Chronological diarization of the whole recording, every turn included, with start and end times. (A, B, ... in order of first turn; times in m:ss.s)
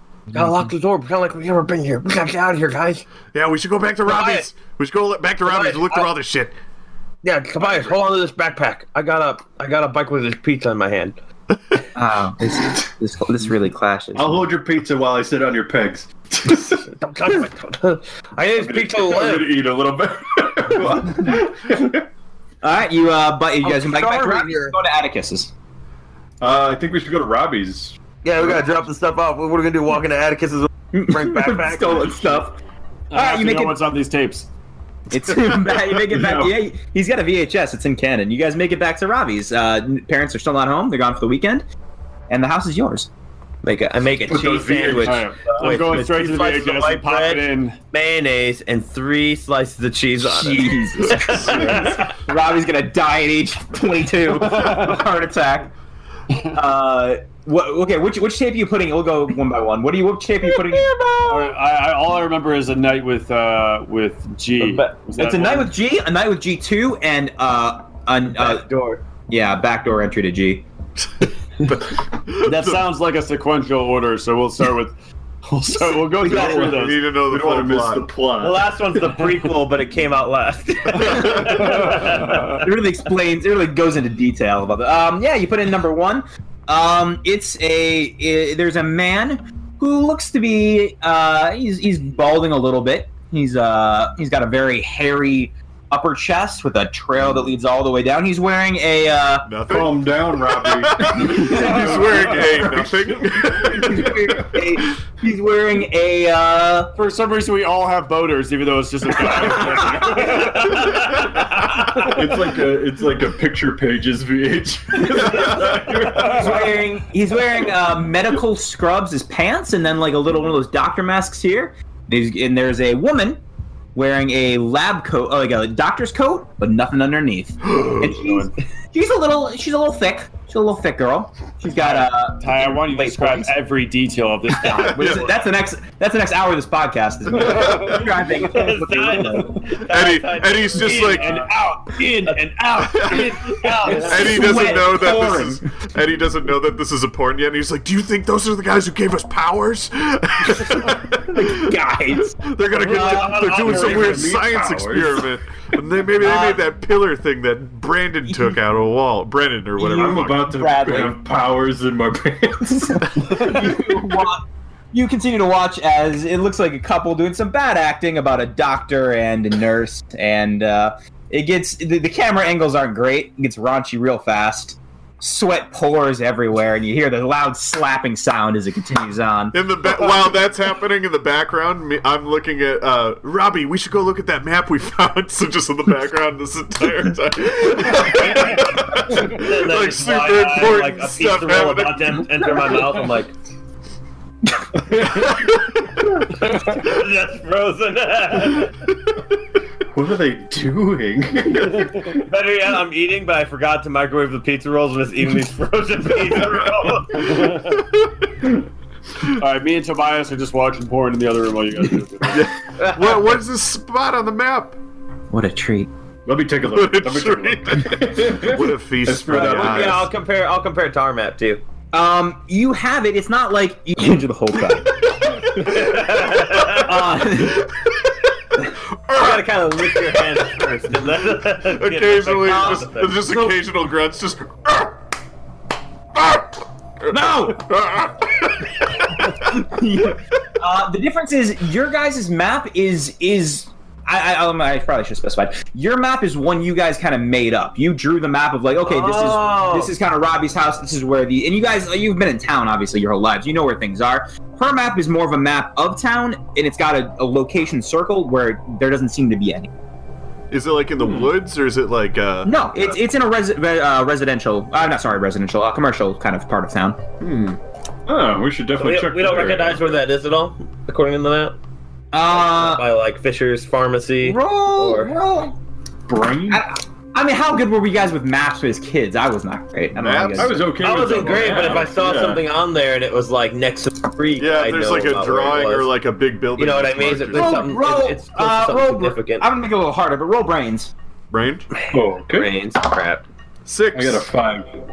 0:00.3-0:03.0 A
0:03.3-0:06.5 B
0:04.0-0:04.5 A
0:05.4-0:06.1 A
0:07.2-0:11.2 A
0:11.9-0:14.4 C
0:14.1-0:16.9 D
0:16.9-0:19.5 A
0:18.6-0:22.0 D
0:22.6-0:25.5 C
0:23.6-0:24.8 A
0:26.4-0:28.0 D
0:28.2-0:32.2 A
0:30.9-0:32.5 C
0:33.1-0:34.5 E
0:33.1-0:33.8 C
0:35.1-0:41.6 C
0:36.1-0:36.5 D
0:42.3-0:43.1 C
0:43.6-0:52.1 A
0:44.2-0:45.3 D
0:45.0-0:47.8 E
0:50.2-0:55.7 C
0:51.3-0:52.0 E
0:54.3-0:55.0 E
0:56.4-1:01.5 C
1:01.2-1:05.7 E
1:04.6-1:05.0 A
1:05.2-1:08.7 C
1:08.4-1:09.0 A
1:09.3-1:10.6 C
1:11.6-1:12.9 B
1:12.4-1:17.0 E
1:16.1-1:16.7 C
1:16.2-1:18.7 D
1:16.6-1:18.0 B
1:18.4-1:22.6 A
1:21.0-1:21.6 C
1:21.1-1:21.6 B
1:21.9-1:22.6 E
1:22.5-1:39.5 C
1:39.4-1:44.6 B
1:39.7-1:44.0 D
1:41.5-1:42.2 E
1:43.6-1:46.9 C
1:47.0-1:51.1 E
1:49.4-1:50.5 C
1:52.0-1:56.6 D
1:55.9-1:56.6 E
1:56.2-2:03.4 C
2:03.9-2:13.5 C
2:07.6-2:08.4 B
2:08.2-2:08.5 E
2:11.7-2:15.4 E
2:14.6-2:19.5 C
2:14.9-2:15.2 B
2:17.3-2:18.5 E
2:18.4-2:21.5 A
2:19.8-2:21.3 B
2:20.9-2:24.3 E
2:22.9-2:31.7 B
2:23.1-2:24.5 A
2:24.0-2:25.6 C
2:31.3-2:33.7 C
2:32.4-2:40.4 B
2:32.7-2:34.5 A
2:33.6-2:35.2 D
2:36.2-2:36.6 C
2:38.3-2:38.5 C
2:39.8-2:41.2 C
2:39.8-2:43.5 D
2:43.0-2:59.6 C
2:59.5-3:12.5 B
3:09.3-3:13.3 A
3:14.7-3:15.3 D
3:16.4-3:18.7 A
3:19.9-3:22.2 D
3:22.1-3:27.6 A
3:27.3-3:27.7 E
3:29.3-3:32.5 E
3:32.3-3:34.8 B
3:32.8-3:33.3 A
3:35.3-3:35.9 C
3:36.2-3:40.1 D
3:36.7-3:40.1 B
3:39.3-3:41.6 A
3:41.9-3:45.0 C
3:45.6-3:46.9 A
3:46.7-3:47.7 C
3:49.1-3:49.4 B
3:49.1-3:53.3 A
3:51.6-3:55.0 B
3:52.4-3:53.6 C
3:56.1-3:58.7 B
3:57.1-3:57.6 C
3:59.4-4:19.7 C
4:08.8-4:09.9 A
4:20.5-4:23.0 B
4:21.0-4:21.3 D
4:22.4-4:27.0 C
4:27.2-4:29.9 D
4:28.8-4:31.6 A
4:32.1-4:32.8 C
4:32.3-4:35.1 A
4:34.2-4:35.6 C
4:36.1-4:36.6 D
4:36.5-4:40.7 C
4:40.0-4:40.6 B
4:40.4-4:42.4 D
4:40.8-4:45.9 A
4:41.3-4:41.8 B
4:44.4-4:47.6 B
4:46.6-4:49.5 A
4:47.3-4:50.9 C
4:51.3-4:51.7 B
4:51.8-4:53.2 A
4:51.9-4:52.5 D
4:53.6-4:54.3 B
4:53.9-4:54.6 D